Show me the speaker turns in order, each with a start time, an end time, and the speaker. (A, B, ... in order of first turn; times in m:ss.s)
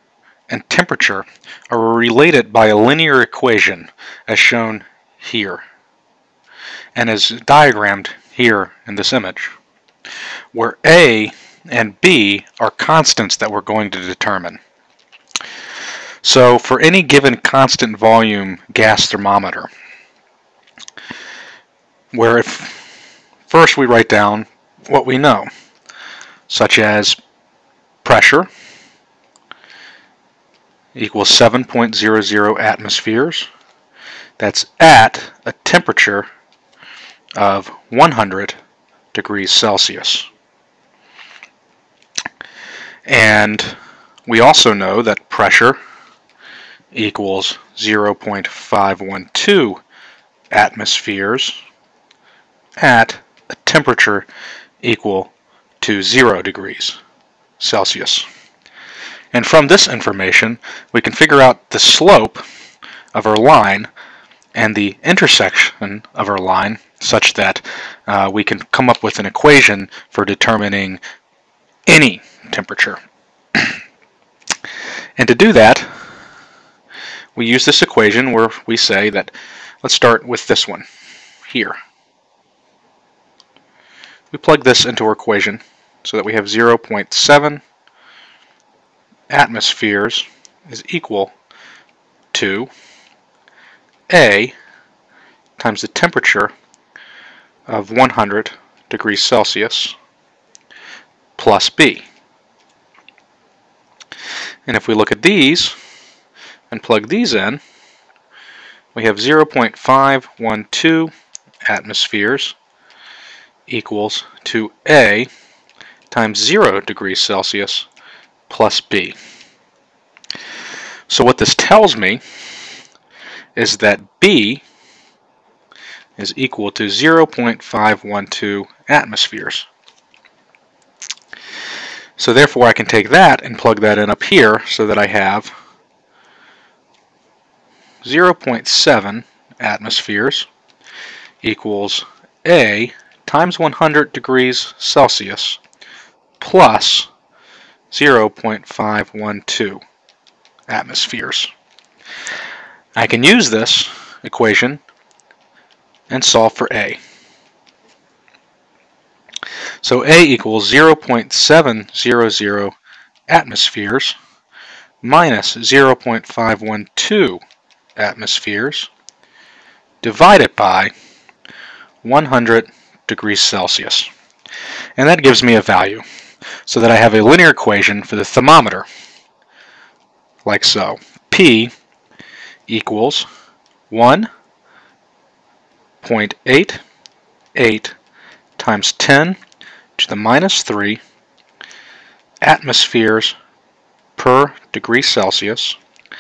0:00.5-0:05.6 A
0:07.0-0:09.5 A
0:10.5-0:14.6 A
0:16.2-0:19.7 A
0:22.1-0:22.8 A
0:23.5-0:25.5 A
0:26.5-0:27.2 A
0:28.0-0:28.5 A
0:30.9-0:33.5 A
0:34.4-0:36.3 A
0:37.4-0:38.6 A
0:39.1-0:40.3 A
0:43.0-0:43.7 A
0:44.3-0:45.8 A
0:46.9-0:49.8 A
0:50.5-0:51.6 A
0:52.8-0:54.3 A
0:54.8-0:57.0 A
0:57.6-0:58.2 A
0:59.3-1:02.4 A
1:03.1-1:03.9 A
1:04.5-1:11.0 A
1:11.9-1:13.0 A
1:15.2-1:15.9 A
1:17.4-1:20.8 A
1:21.5-1:21.8 A
1:24.3-1:27.6 A
1:29.3-1:31.3 A
1:32.3-1:32.7 A
1:34.1-1:34.5 A
1:35.6-1:36.5 A
1:37.7-1:40.0 A
1:41.4-1:42.0 A
1:44.6-1:45.8 A
1:46.7-1:47.6 A
1:48.9-1:51.1 A
1:51.6-1:52.6 A
1:53.7-1:55.3 A
1:56.1-1:57.9 A
1:58.5-1:59.2 A
2:01.1-2:02.2 A
2:03.6-2:04.6 A
2:06.2-2:09.7 A
2:12.2-2:15.5 A
2:18.0-2:20.5 A
2:21.4-2:25.6 A
2:26.4-2:27.1 A
2:27.9-2:29.8 A
2:30.7-2:31.5 A
2:33.0-2:34.8 A
2:36.1-2:37.0 A
2:39.8-2:42.7 A
2:43.3-2:44.2 A
2:45.0-2:47.4 A
2:48.0-2:48.9 A
2:50.0-2:50.9 A
2:52.0-2:54.1 A
2:55.0-2:56.0 A
2:56.6-2:58.8 A
3:00.4-3:01.7 A
3:02.7-3:03.3 A
3:03.9-3:04.3 A
3:06.0-3:06.8 A
3:07.5-3:08.0 A
3:08.6-3:09.4 A
3:10.0-3:11.0 A
3:12.4-3:13.3 A
3:14.2-3:15.8 A